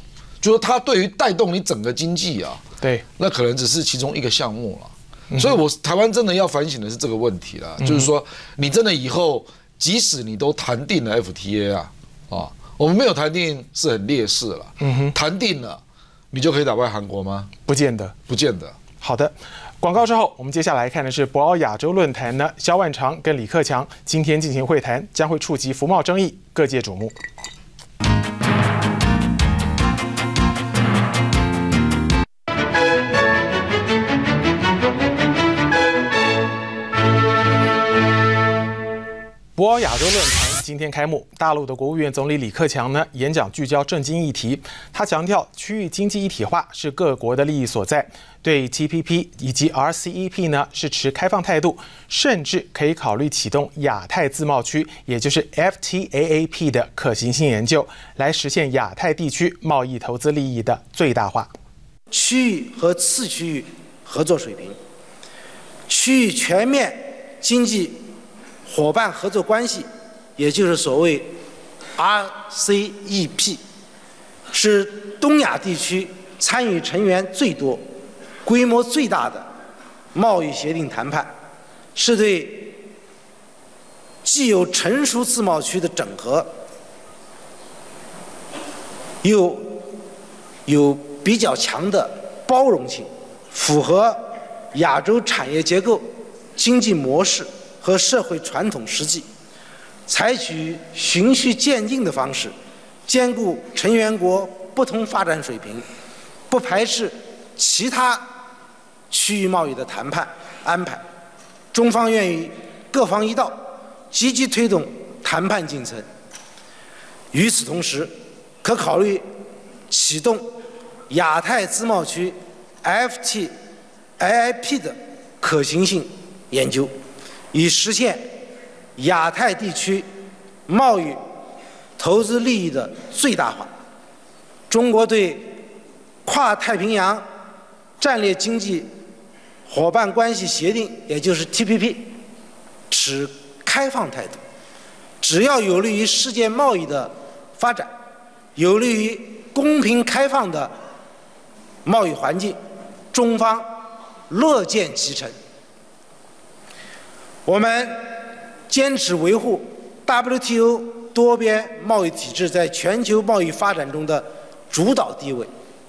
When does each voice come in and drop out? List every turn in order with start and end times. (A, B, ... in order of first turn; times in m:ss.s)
0:00.4-0:02.6 A
0:03.2-0:15.8 A
0:05.3-0:05.6 B
0:07.8-0:08.1 B
0:14.8-0:15.1 B
0:16.3-0:17.5 A
0:17.7-0:18.2 B
0:18.3-0:18.8 A
0:19.0-0:27.2 B
0:39.6-1:01.5 B
1:02.1-1:04.8 C
1:05.9-1:08.0 C
1:08.7-1:11.3 C
1:12.0-1:13.6 C
1:14.5-1:17.8 C
1:18.4-1:19.5 C
1:20.2-1:21.3 C
1:22.0-1:22.8 C
1:24.2-1:26.5 C
1:29.2-1:29.8 C
1:30.7-1:34.2 C
1:34.7-1:39.2 C
1:40.1-1:42.5 C
1:43.1-1:45.8 C
1:46.5-1:48.3 C
1:49.1-1:51.0 C
1:51.7-1:53.6 C
1:54.1-1:56.1 C
1:57.3-1:58.1 C
1:58.6-1:59.2 C
1:59.9-2:00.5 C
2:01.1-2:03.5 C
2:04.2-2:06.9 C
2:07.5-2:08.2 C
2:09.0-2:10.1 C
2:10.7-2:11.2 C
2:12.0-2:13.7 C
2:14.7-2:15.5 C
2:16.2-2:17.2 C
2:18.0-2:18.9 C
2:19.7-2:22.1 C
2:22.9-2:24.4 C
2:25.2-2:27.9 C
2:28.6-2:30.7 C
2:31.8-2:32.6 C
2:33.1-2:33.7 C
2:34.3-2:35.4 C
2:37.4-2:38.0 C
2:38.7-2:45.5 C